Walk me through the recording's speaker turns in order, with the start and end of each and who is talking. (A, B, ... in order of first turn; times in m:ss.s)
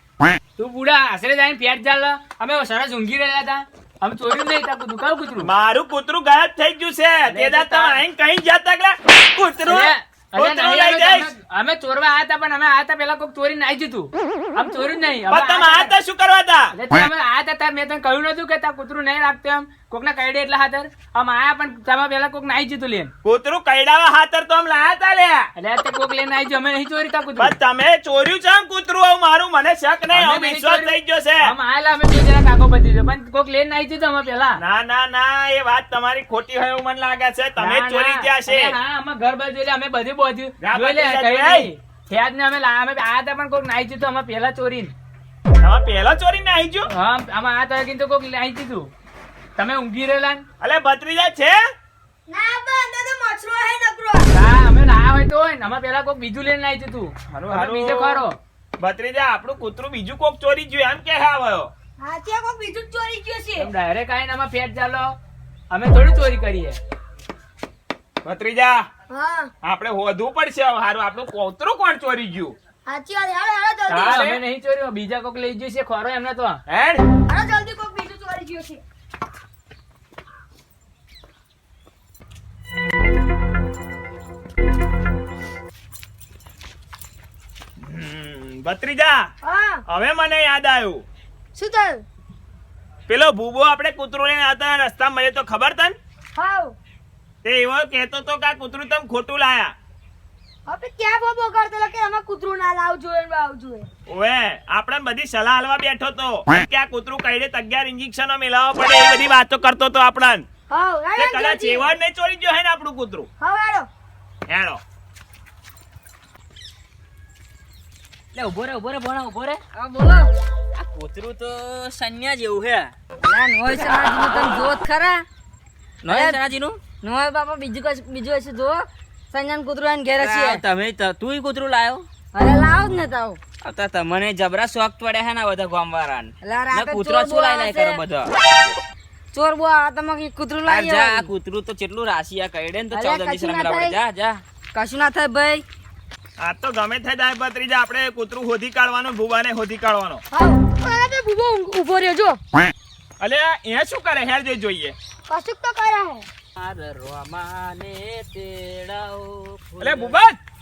0:00.6-0:05.5 A
0:05.4-0:11.3 B
0:07.3-0:08.0 A
0:09.6-0:15.9 A
0:15.3-0:16.7 B
0:16.7-0:23.1 A
0:23.2-0:25.5 B
0:25.6-0:27.6 A
0:27.4-0:31.4 B
0:30.1-0:30.9 A
0:31.4-0:34.6 A
0:34.6-0:38.7 B
0:37.6-0:44.9 A
0:40.6-0:41.7 B
0:45.6-0:46.9 B
0:46.9-0:48.9 A
0:49.6-0:50.4 A
0:50.6-0:51.6 B
0:52.3-0:54.3 C
0:54.3-0:58.4 A
0:57.3-0:58.2 B
0:58.8-1:01.7 B
1:02.0-1:03.7 C
1:03.6-1:05.2 A
1:05.7-1:06.8 A
1:08.2-1:08.9 B
1:09.1-1:09.5 C
1:09.6-1:12.6 B
1:12.9-1:14.2 C
1:13.9-1:16.6 A
1:13.9-1:14.4 B
1:16.7-1:17.0 B
1:17.3-1:18.8 C
1:27.8-1:29.3 B
1:29.4-1:29.8 C
1:29.9-1:31.0 B
1:31.6-1:32.0 C
1:33.1-1:36.0 B
1:36.4-1:36.8 C
1:37.4-1:39.7 B
1:40.7-1:43.9 C
1:44.1-1:50.5 B
1:50.7-1:51.9 C
1:51.2-1:53.3 B
1:53.4-1:53.9 C
1:54.5-1:54.8 B
1:58.3-1:59.6 D
1:59.7-2:00.3 E
2:00.7-2:02.9 D
2:03.2-2:05.2 E
2:06.0-2:06.8 D
2:06.1-2:06.4 E
2:07.0-2:10.6 E
2:10.2-2:12.1 D
2:12.3-2:13.4 E
2:13.6-2:18.3 D
2:16.4-2:18.0 E
2:19.3-2:21.3 E
2:20.6-2:24.4 D
2:22.9-2:24.0 E
2:24.7-2:25.6 E
2:26.4-2:30.2 B
2:30.3-2:32.4 C
2:33.2-2:35.0 B
2:35.3-2:36.3 C
2:36.6-2:40.2 D
2:39.8-2:40.4 B